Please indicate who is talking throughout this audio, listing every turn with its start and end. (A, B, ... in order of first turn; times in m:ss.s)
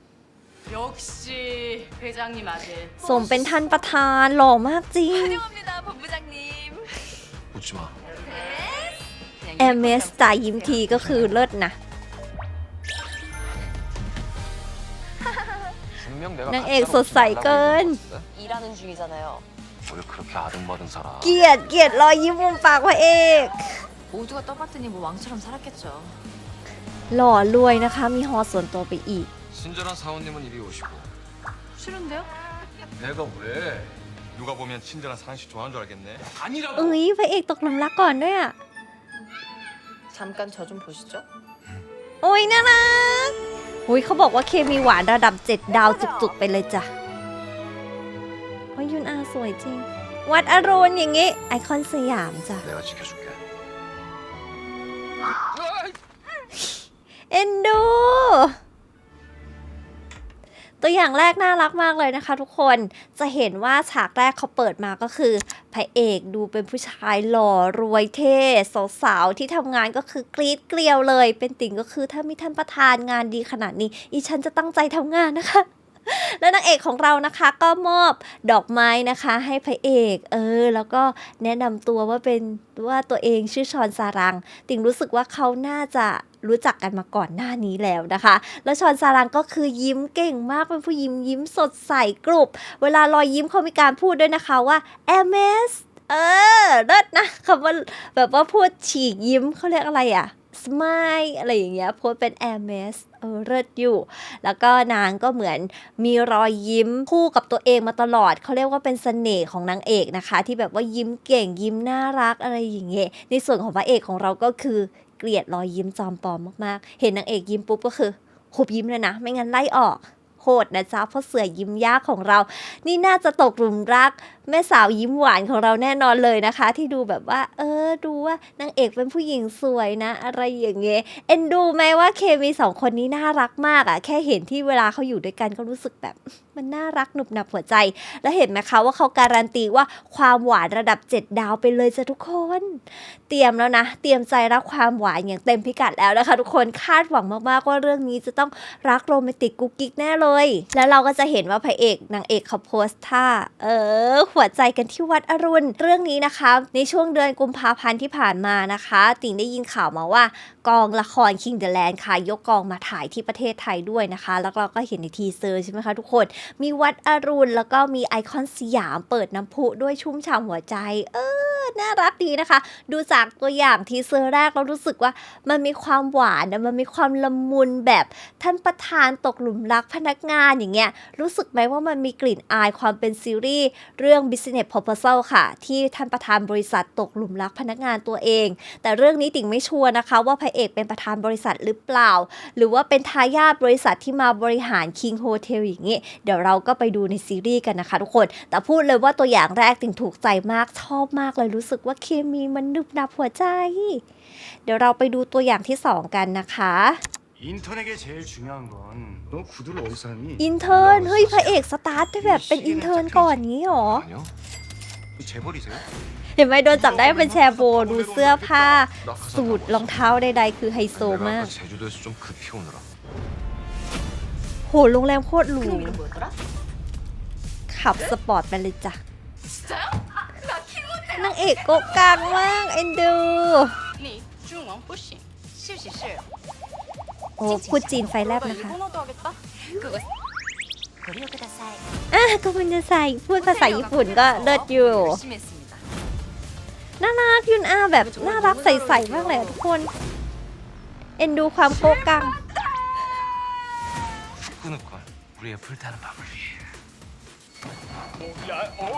0:00.7-0:03.7 A
0:03.0-0:05.4 B
0:05.1-0:07.2 A
0:07.5-0:07.9 C
0:08.2-0:11.1 A
0:09.6-0:11.8 B
0:15.9-0:18.3 C
0:16.5-0:18.0 B
0:18.3-0:19.4 A
0:19.8-0:21.4 C
0:21.2-0:23.9 B
0:24.1-0:26.2 A
0:27.1-0:29.3 B
0:29.5-0:31.1 C
0:31.8-0:32.3 A
0:33.0-0:37.0 C
0:36.7-0:38.6 B
0:40.1-0:41.2 A
0:42.2-0:46.9 B
0:45.7-0:46.3 A
0:48.7-0:52.7 B
0:52.6-0:53.4 C
0:55.6-0:55.9 C
0:57.3-0:58.6 B
1:00.8-3:24.0 B
3:24.6-3:27.0 B
3:27.4-3:31.0 D
3:30.4-3:34.0 B
3:30.6-3:31.6 C
3:32.2-3:33.3 D
3:32.6-3:33.2 C
3:33.8-3:34.3 C
3:35.2-3:35.8 D
3:36.4-3:41.5 B
3:36.9-3:38.8 D
3:39.0-3:40.1 C
3:40.9-3:42.9 C
3:44.7-3:46.0 B
3:45.6-3:46.4 A
3:47.7-3:49.0 B
3:49.7-3:51.3 A
3:51.1-3:53.8 B
3:54.0-3:56.2 A
3:57.4-3:58.8 B
3:57.4-4:00.0 A
4:01.0-4:01.8 A
4:02.1-4:05.2 B
4:03.3-4:05.8 A
4:07.0-4:09.9 B
4:08.0-4:09.6 A
4:11.2-4:12.4 B
4:14.5-4:16.6 C